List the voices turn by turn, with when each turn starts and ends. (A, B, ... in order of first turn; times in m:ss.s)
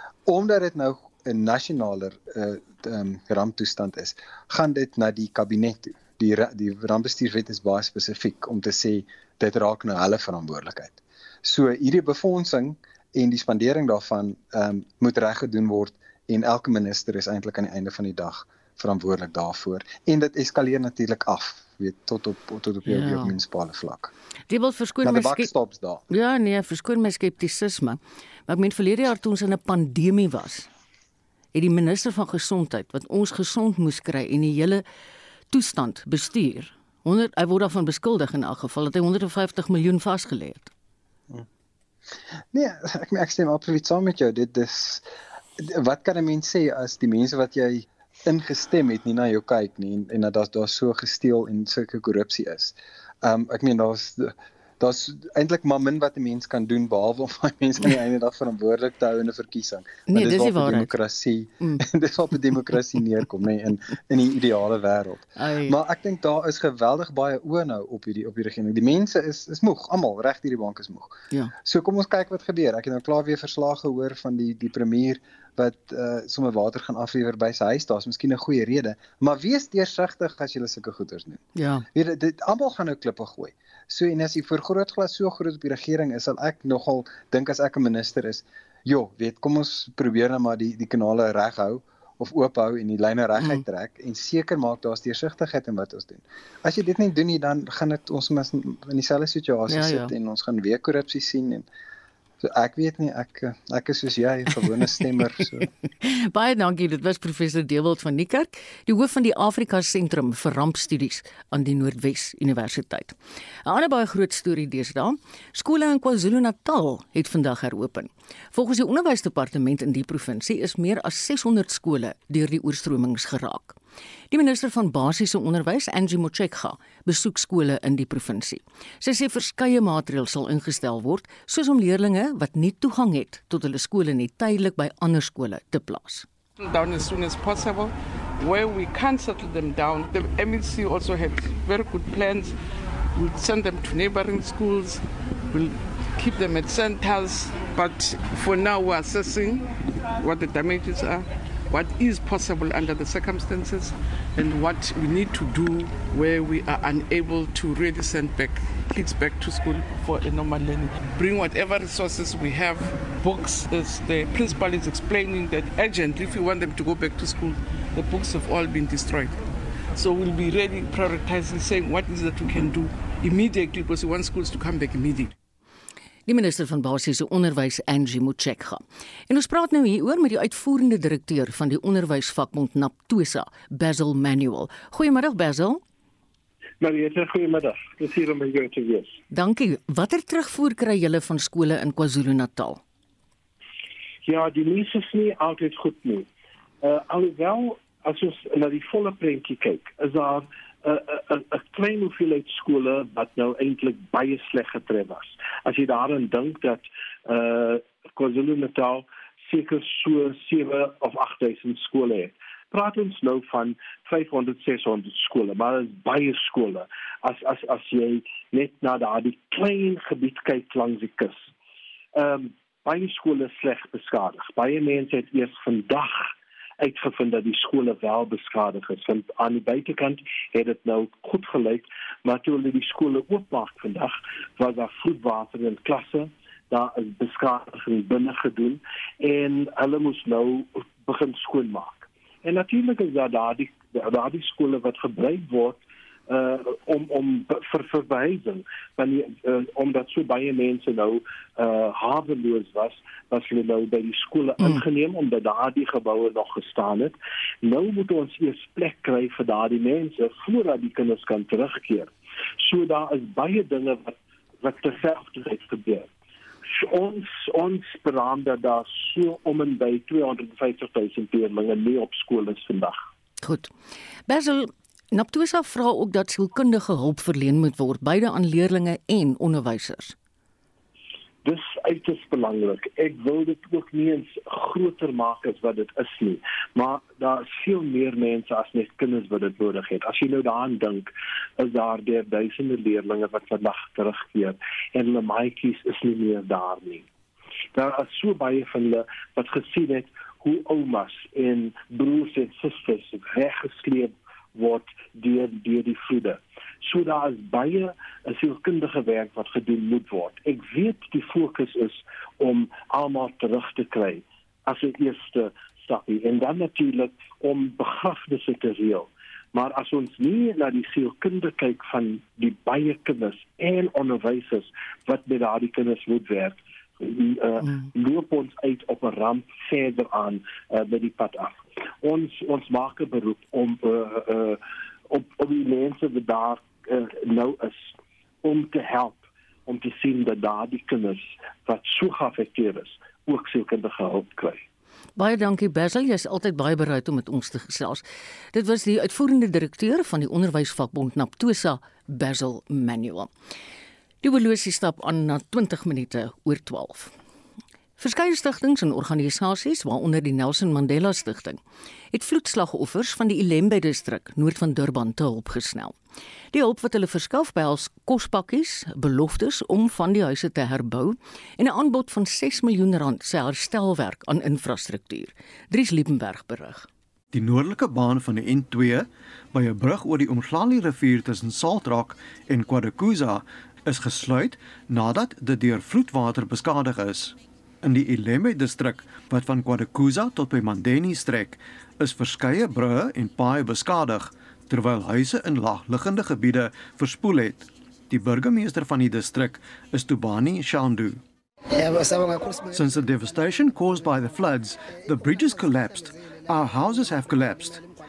0:00.3-0:24.1 A
0:22.9-0:23.4 B
0:24.5-0:25.5 B
0:25.0-0:26.0 A
0:26.1-0:30.7 B
0:31.5-0:34.8 B
0:35.5-0:40.7 B
0:42.5-0:45.0 A
0:45.6-1:21.4 A
1:00.1-1:00.9 B
1:05.4-1:05.8 B
1:21.6-1:21.8 B
1:21.9-1:41.7 A
1:33.4-1:33.6 B
1:39.7-1:40.1 B
1:42.4-1:45.7 A
1:46.0-2:03.8 B
2:04.3-2:16.3 B
2:16.6-2:22.6 C
2:23.1-2:49.4 C
2:50.0-2:55.3 C
2:56.3-3:05.8 B
3:06.8-3:09.2 D
3:09.3-3:12.8 B
3:14.2-3:16.3 D
3:16.8-3:41.4 D
3:42.2-3:46.2 D
3:46.8-4:22.1 D
4:22.6-4:26.1 D
4:26.7-4:33.0 D
4:33.4-4:33.7 B
4:34.3-4:40.2 B
4:41.4-4:57.1 D
4:57.7-5:44.6 D
5:27.6-5:27.9 B
5:45.2-5:53.3 B
5:54.2-5:57.1 B
5:58.0-6:01.6 B
6:02.1-6:06.0 B
6:06.5-6:16.9 B
6:17.3-6:41.2 E
6:42.7-6:47.8 E